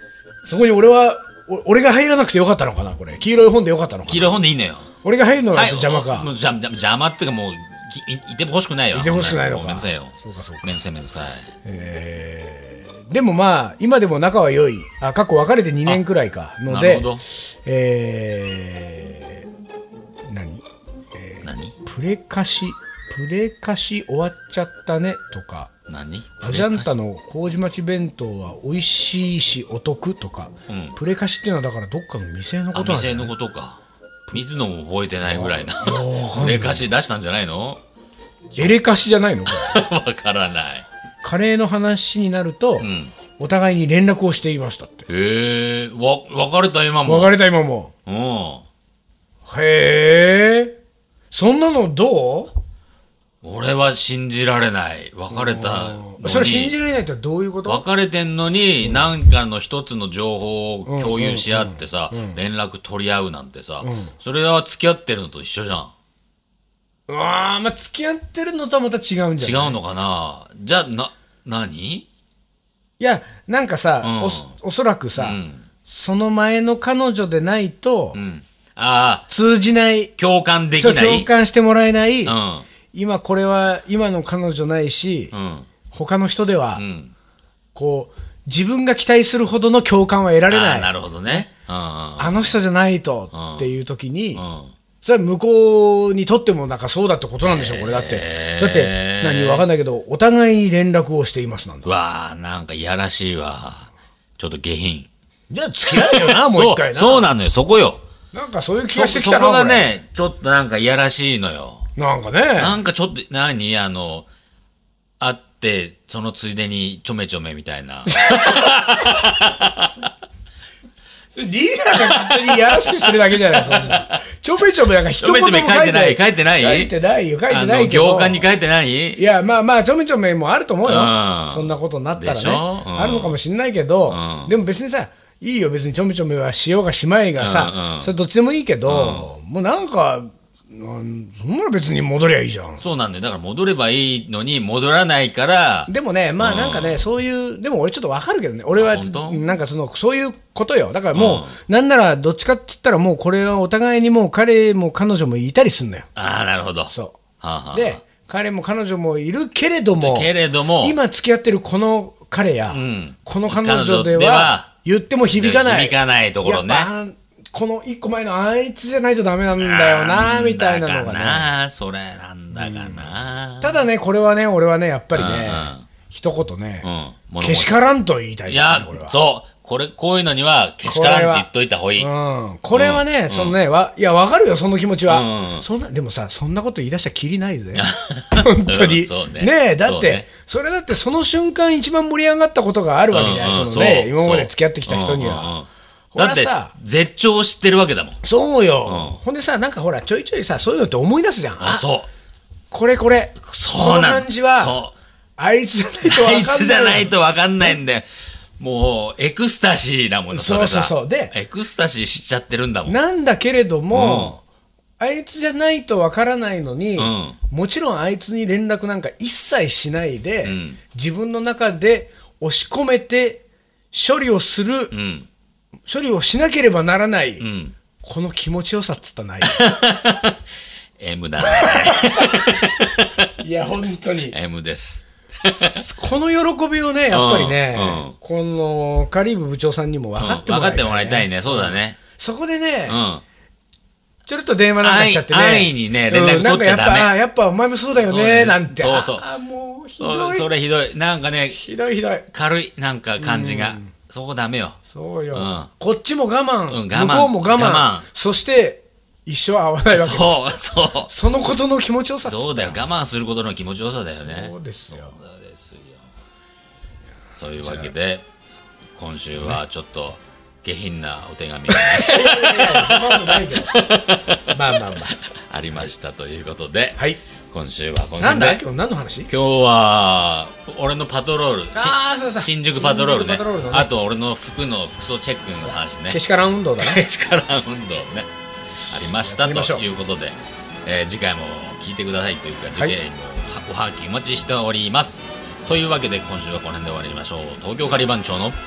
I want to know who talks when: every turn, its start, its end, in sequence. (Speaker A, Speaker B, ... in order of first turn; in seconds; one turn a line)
Speaker A: 0.4-4.4
Speaker B: 4.1-4.9
Speaker A: 5.0-6.3
Speaker B: 5.5-11.5
Speaker A: 8.9-10.8
Speaker A: 11.6-19.5
Speaker B: 16.7-17.2
Speaker A: 20.2-25.7
Speaker B: 21.4-21.7
Speaker B: 25.9-27.0
Speaker A: 26.4-33.3
Speaker B: 30.7-30.9
Speaker B: 32.7-33.8
Speaker B: 34.3-37.8
Speaker A: 35.3-36.9
Speaker A: 38.5-39.8
Speaker B: 38.5-38.8
Speaker B: 39.5-40.8
Speaker A: 41.2-45.1
Speaker B: 42.8-43.1
Speaker B: 45.1-47.3
Speaker A: 47.0-47.9
Speaker B: 48.0-48.6
Speaker A: 49.5-50.8
Speaker A: 51.3-52.5
Speaker B: 53.4-56.8
Speaker A: 55.3-57.8
Speaker B: 57.6-65.9
Speaker A: 60.9-62.4
Speaker A: 63.8-64.1
Speaker A: 67.1-69.8
Speaker B: 69.4-72.0
Speaker A: 73.0-78.2
Speaker B: 74.0-74.5
Speaker B: 75.2-75.6
Speaker B: 78.1-79.3
Speaker A: 79.3-80.1
Speaker B: 80.2-81.3
Speaker A: 80.7-82.3
Speaker B: 82.2-82.7
Speaker A: 82.9-85.3
Speaker B: 85.3-85.7
Speaker A: 85.9-86.8
Speaker B: 86.7-87.1
Speaker A: 87.7-91.5
Speaker B: 90.5-92.5
Speaker A: 92.2-94.4
Speaker B: 93.3-93.7
Speaker B: 94.3-94.7
Speaker A: 95.0-101.9
Speaker B: 97.4-99.7
Speaker B: 101.8-105.1
Speaker A: 105.5-107.3
Speaker B: 105.8-108.0
Speaker A: 108.3-109.9
Speaker B: 108.9-111.9
Speaker A: 112.0-112.8
Speaker B: 112.6-114.2
Speaker B: 115.2-119.9
Speaker A: 118.1-119.3
Speaker A: 121.3-128.5
Speaker B: 122.0-122.8
Speaker B: 123.5-124.0
Speaker B: 125.2-126.9
Speaker B: 127.5-129.2
Speaker A: 129.2-142.9
Speaker B: 130.8-133.3
Speaker B: 134.1-134.5
Speaker B: 137.4-138.1
Speaker B: 138.8-139.3
Speaker B: 142.8-147.0
Speaker A: 145.9-156.1
Speaker B: 148.7-149.5
Speaker B: 151.1-151.5
Speaker B: 156.2-158.0
Speaker A: 156.9-157.2
Speaker A: 157.7-171.5
Speaker B: 160.0-161.0
Speaker B: 162.7-164.7
Speaker B: 165.3-166.9
Speaker B: 169.6-173.8
Speaker A: 172.5-176.9
Speaker B: 175.1-175.9
Speaker B: 176.8-177.7
Speaker A: 177.4-179.2
Speaker B: 178.5-182.1
Speaker A: 180.8-195.6
Speaker B: 182.7-183.6
Speaker B: 185.1-185.7
Speaker B: 187.7-190.2
Speaker B: 193.1-198.2
Speaker A: 196.1-196.7
Speaker A: 198.2-201.8
Speaker B: 198.9-199.2
Speaker B: 201.6-202.1
Speaker A: 202.7-204.8
Speaker B: 203.4-204.9
Speaker A: 205.4-207.1
Speaker B: 206.0-208.1
Speaker B: 208.6-213.0
Speaker A: 210.3-211.3
Speaker A: 212.9-214.4
Speaker B: 213.9-214.3
Speaker A: 215.0-224.9
Speaker B: 217.0-217.4
Speaker B: 220.4-220.8
Speaker B: 224.9-225.3
Speaker A: 225.9-227.4
Speaker B: 227.4-227.7
Speaker A: 228.0-229.9
Speaker B: 229.5-230.3
Speaker B: 231.0-233.0
Speaker A: 231.4-234.4
Speaker B: 234.3-235.8
Speaker A: 235.5-243.0
Speaker B: 237.1-238.1
Speaker B: 240.2-242.0
Speaker B: 242.9-243.2
Speaker A: 244.3-250.5
Speaker B: 244.8-247.1
Speaker B: 247.9-249.2
Speaker B: 250.0-251.6
Speaker A: 251.5-252.3
Speaker B: 252.3-254.8
Speaker A: 253.2-253.9
Speaker A: 254.8-262.8
Speaker B: 255.3-255.7
Speaker B: 256.7-258.1
Speaker B: 259.9-261.1
Speaker B: 262.2-266.0
Speaker A: 264.2-265.1
Speaker B: 267.4-268.3
Speaker A: 267.6-267.9
Speaker B: 268.9-274.8
Speaker A: 271.7-275.2
Speaker B: 275.3-277.0
Speaker B: 277.5-278.6
Speaker A: 278.2-279.3
Speaker B: 279.3-286.2
Speaker A: 281.7-283.9
Speaker A: 286.1-287.0
Speaker B: 286.8-288.3
Speaker B: 288.9-298.6
Speaker A: 289.2-289.8